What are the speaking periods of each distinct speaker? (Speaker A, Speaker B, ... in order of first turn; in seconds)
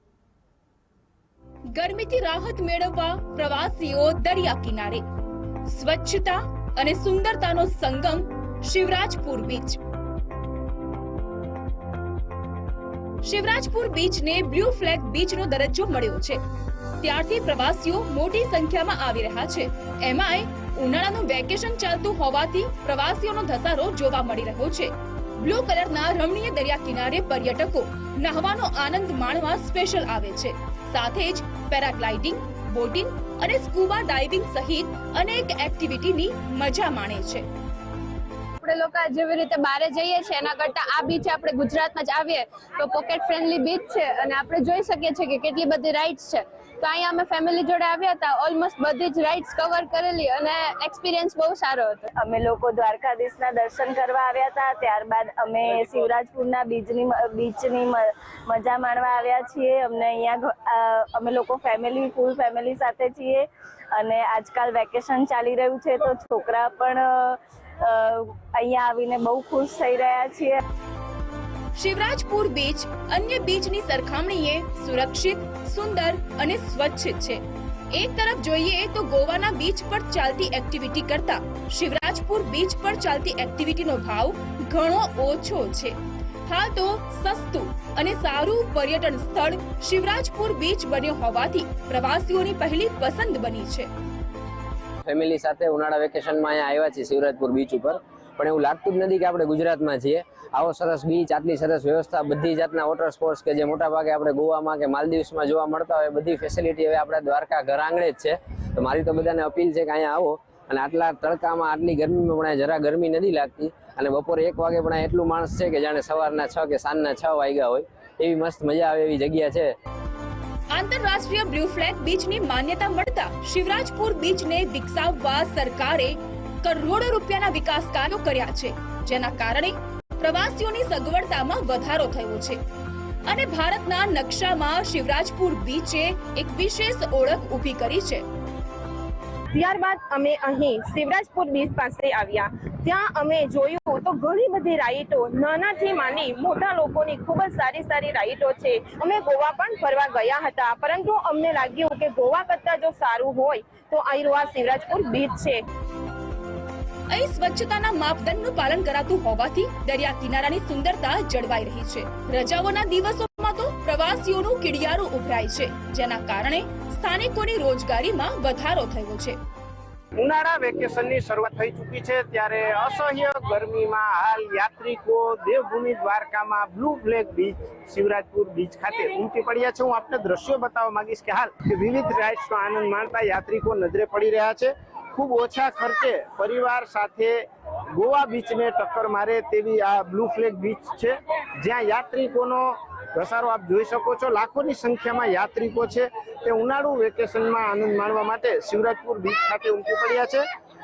Speaker A: 1.7-5.0, 5.7-9.8, 13.2-16.4, 17.0-37.4, 71.8-77.4, 77.9-93.9, 120.7-132.6, 133.3-138.2, 157.1-169.4
Speaker B: 38.6-52.0
Speaker C: 52.2-70.6
Speaker D: 95.0-119.7
Speaker E: 139.5-155.6
Speaker F: 170.2-187.4, 188.0-200.4